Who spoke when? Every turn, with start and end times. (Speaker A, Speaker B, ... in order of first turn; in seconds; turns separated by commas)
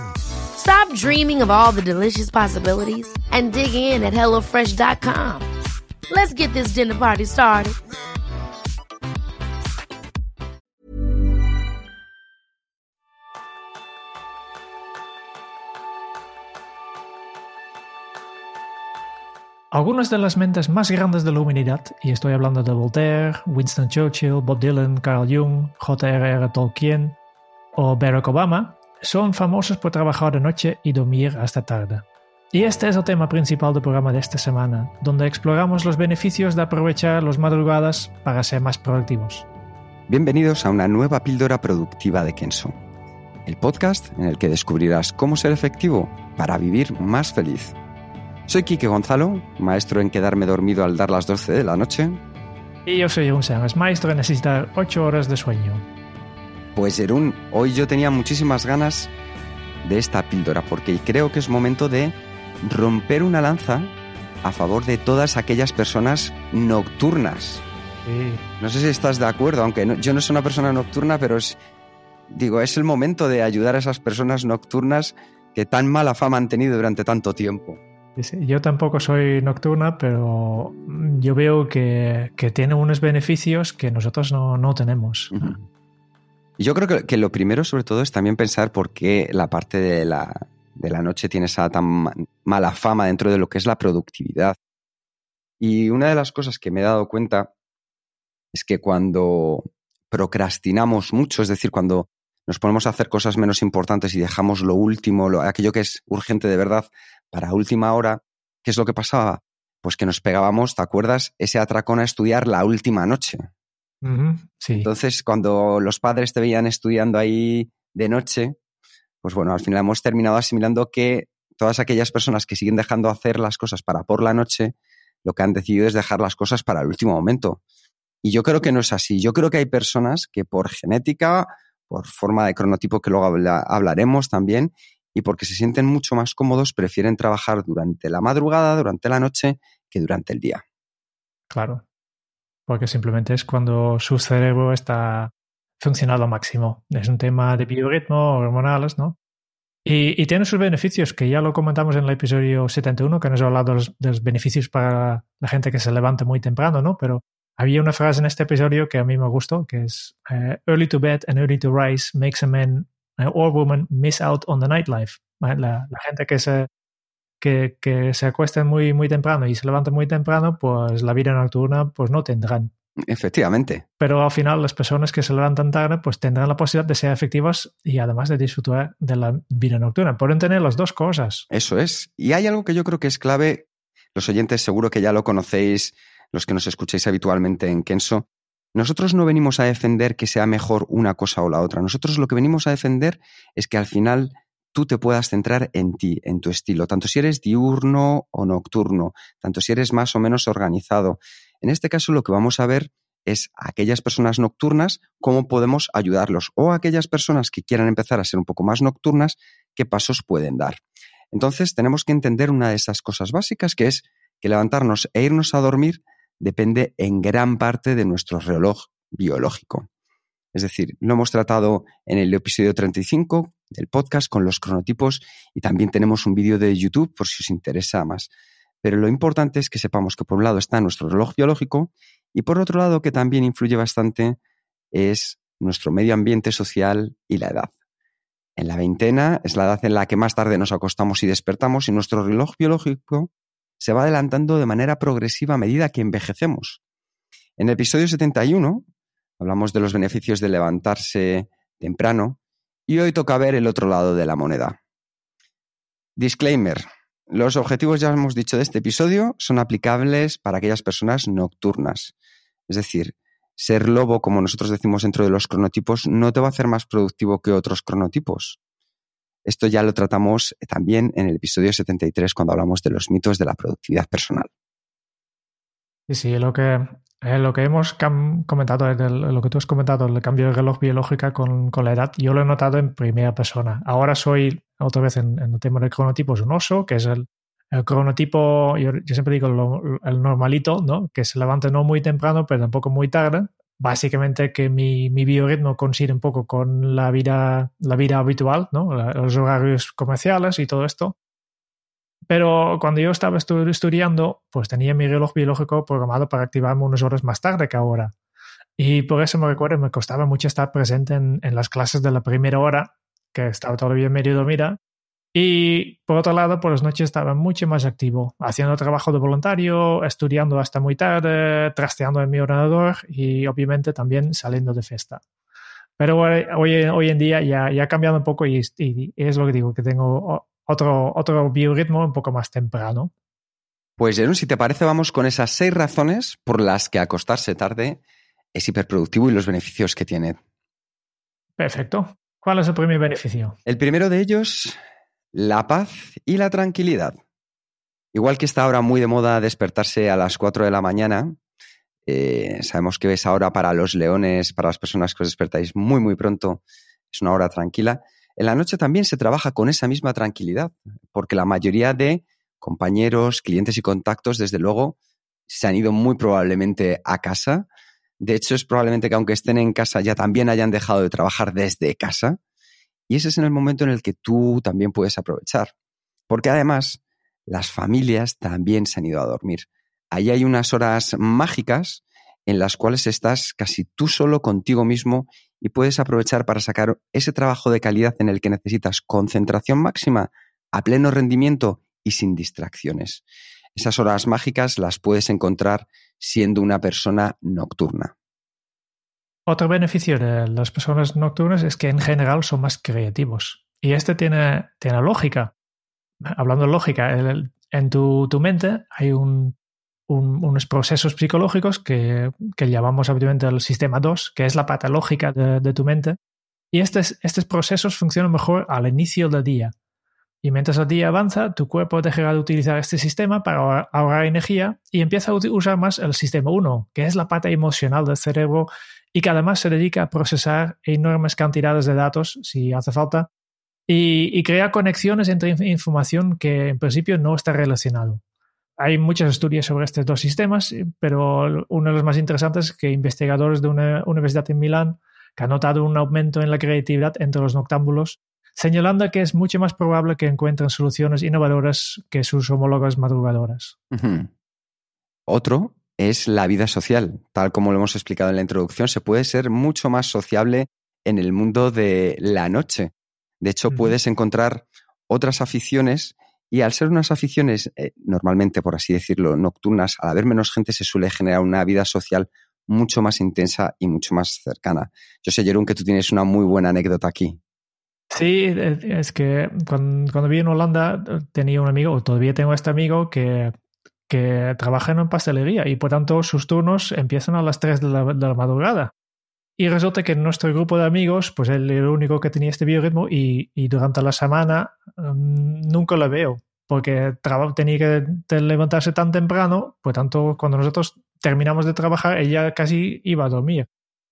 Speaker A: 0.6-5.5, Speaker A: 6.1-7.8, Speaker B: 19.7-27.2, Speaker B: 27.8-39.5, Speaker C: 40.1-42.8, Speaker C: 43.5-47.8, Speaker C: 48.5-52.2, Speaker B: 52.9-55.9, Speaker C: 56.8-59.1, Speaker C: 59.8-67.6, Speaker B: 68.1-68.4, Speaker C: 68.6-71.6, Speaker C: 72.3-77.8, Speaker B: 78.2-85.5, Speaker C: 85.3-85.6, Speaker C: 86.6-94.6, Speaker C: 95.6-97.5, Speaker C: 98.5-113.5, Speaker B: 114.0-114.9, Speaker C: 114.8-118.6, Speaker C: 119.2-127.6, Speaker C: 128.2-140.6, Speaker B: 141.5-141.8, Speaker B: 142.7-149.2, Speaker B: 149.8-166.7, Speaker B: 167.4-172.7, Speaker C: 173.1-173.8, Speaker B: 174.0-181.4, Speaker C: 181.5-210.8, Speaker C: 211.3-219.9, Speaker C: 220.5-228.3, Speaker C: 228.8-234.4, Speaker C: 234.9-237.7, Speaker C: 238.6-246.8, Speaker C: 247.6-248.8, Speaker C: 249.4-254.8, Speaker C: 256.2-262.1, Speaker C: 262.7-268.6, Speaker C: 269.4-274.5, Speaker B: 276.1-301.2, Speaker B: 302.3-308.1, Speaker B: 308.8-314.8, Speaker B: 315.3-325.2, Speaker B: 326.0-333.1, Speaker C: 334.0-338.0, Speaker C: 338.6-340.4, Speaker B: 341.6-343.6, Speaker C: 343.7-344.8, Speaker C: 345.3-347.2, Speaker C: 348.1-351.4, Speaker C: 352.1-365.0, Speaker C: 365.5-367.7, Speaker C: 368.2-372.4, Speaker C: 373.1-375.7, Speaker C: 376.3-393.2, Speaker C: 393.8-398.1, Speaker B: 399.5-405.5, Speaker B: 406.3-409.6, Speaker B: 410.1-416.2, Speaker B: 416.7-419.7, Speaker B: 420.4-433.3, Speaker B: 433.9-438.2, Speaker B: 438.8-453.8, Speaker C: 453.9-454.3, Speaker C: 455.3-462.9, Speaker C: 463.4-477.4, Speaker B: 478.1-483.5, Speaker B: 484.1-488.9, Speaker B: 489.6-503.7